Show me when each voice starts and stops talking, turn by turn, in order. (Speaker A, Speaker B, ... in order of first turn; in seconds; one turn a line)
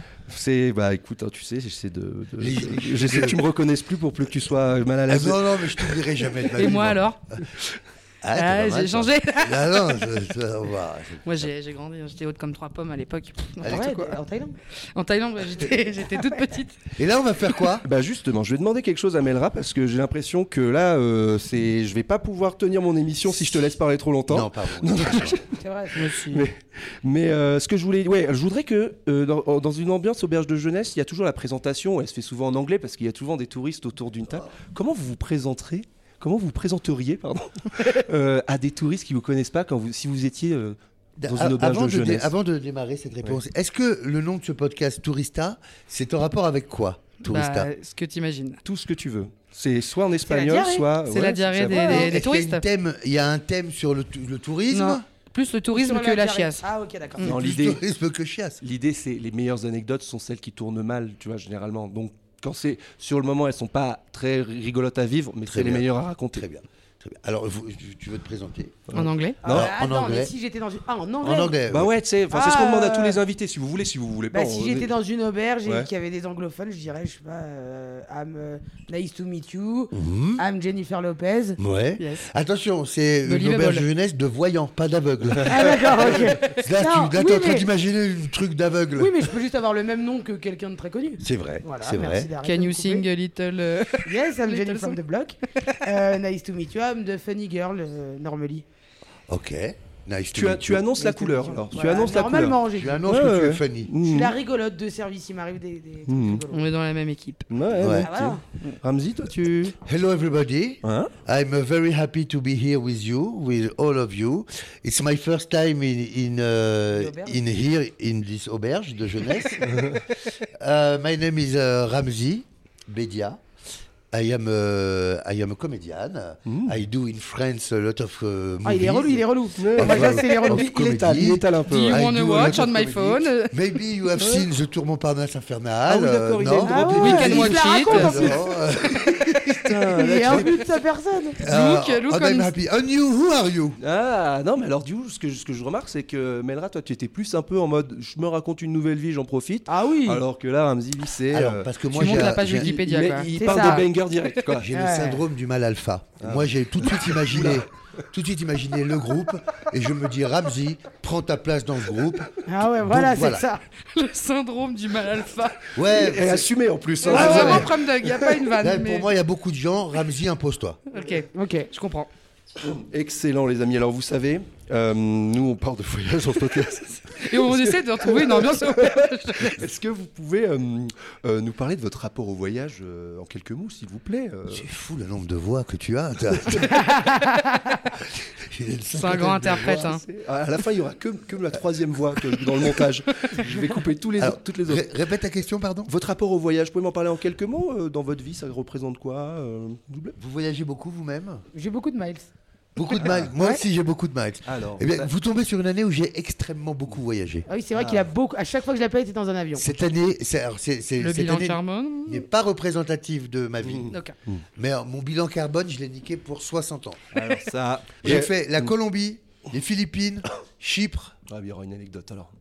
Speaker A: 0.3-6.0
Speaker B: 2.4-3.4
Speaker B: 5.1-7.0
Speaker C: 6.6-7.2
Speaker B: 8.2-11.5
Speaker C: 8.3-9.9
Speaker C: 11.2-14.2
Speaker B: 13.6-14.0
Speaker D: 13.7-14.6
Speaker C: 14.9-16.8
Speaker B: 16.9-17.9
Speaker A: 17.8-42.3
Speaker B: 23.3-23.7
Speaker B: 24.3-25.4
Speaker D: 25.5-26.1
Speaker C: 25.9-26.4
Speaker B: 41.2-47.7
Speaker C: 47.2-48.6
Speaker A: 48.6-52.0
Speaker D: 50.3-50.9
Speaker C: 51.0-52.6
Speaker D: 51.7-52.0
Speaker B: 51.8-55.0
Speaker C: 54.7-56.6
Speaker D: 55.7-57.2
Speaker A: 57.2-57.8
Speaker B: 57.2-58.6
Speaker A: 58.6-66.4
Speaker B: 65.5-68.8
Speaker A: 68.9-69.7
Speaker C: 68.9-69.4
Speaker D: 69.4-71.5
Speaker B: 69.4-70.3
Speaker B: 71.2-71.9
Speaker A: 71.7-74.9
Speaker D: 72.3-73.2
Speaker D: 74.3-81.6
Speaker B: 79.9-80.4
Speaker B: 81.6-89.3
Speaker C: 82.0-82.3
Speaker C: 83.2-83.8
Speaker D: 85.5-87.7
Speaker D: 89.0-93.0
Speaker B: 91.2-92.3
Speaker C: 92.4-95.0
Speaker D: 94.0-98.6
Speaker B: 99.3-100.8
Speaker A: 100.3-104.3
Speaker D: 101.0-103.0
Speaker B: 102.8-103.9
Speaker D: 104.0-106.6
Speaker A: 106.1-106.4
Speaker C: 106.5-107.5
Speaker A: 107.5-109.8
Speaker B: 107.8-108.1
Speaker D: 108.0-108.4
Speaker B: 109.8-120.0
Speaker A: 110.8-111.1
Speaker D: 116.9-117.4
Speaker A: 119.6-120.2
Speaker B: 120.5-123.4
Speaker B: 124.1-140.5
Speaker A: 126.5-126.8
Speaker D: 128.6-130.7
Speaker A: 129.6-132.0
Speaker C: 131.7-133.5
Speaker A: 134.2-134.5
Speaker D: 135.9-138.4
Speaker A: 135.9-137.4
Speaker C: 136.9-138.3
Speaker A: 139.6-140.5
Speaker D: 140.0-141.4
Speaker B: 141.4-143.8
Speaker C: 141.4-142.5
Speaker A: 143.8-154.7
Speaker D: 149.7-150.2
Speaker B: 151.3-152.8
Speaker C: 151.9-153.9
Speaker D: 153.4-153.8
Speaker B: 154.6-163.5
Speaker D: 154.7-155.2
Speaker A: 156.2-157.6
Speaker D: 162.5-163.6
Speaker C: 163.9-165.7
Speaker B: 165.7-166.5
Speaker A: 165.9-168.5
Speaker C: 167.0-169.1
Speaker B: 167.1-167.7
Speaker B: 168.6-170.8
Speaker C: 170.9-172.1
Speaker D: 171.3-171.7
Speaker A: 172.6-184.7
Speaker C: 177.2-179.6
Speaker B: 184.5-187.0
Speaker B: 188.5-189.9
Speaker C: 188.9-190.0
Speaker A: 189.7-194.9
Speaker B: 194.2-195.9
Speaker A: 195.9-200.2
Speaker B: 200.2-201.4
Speaker D: 201.5-202.3
Speaker B: 202.8-207.5
Speaker A: 203.0-203.3
Speaker A: 204.5-205.1
Speaker D: 207.5-209.7
Speaker B: 209.6-213.9
Speaker C: 211.0-212.2
Speaker A: 213.6-214.4
Speaker B: 214.6-217.4
Speaker A: 217.1-218.7
Speaker B: 218.0-221.2
Speaker A: 221.3-222.3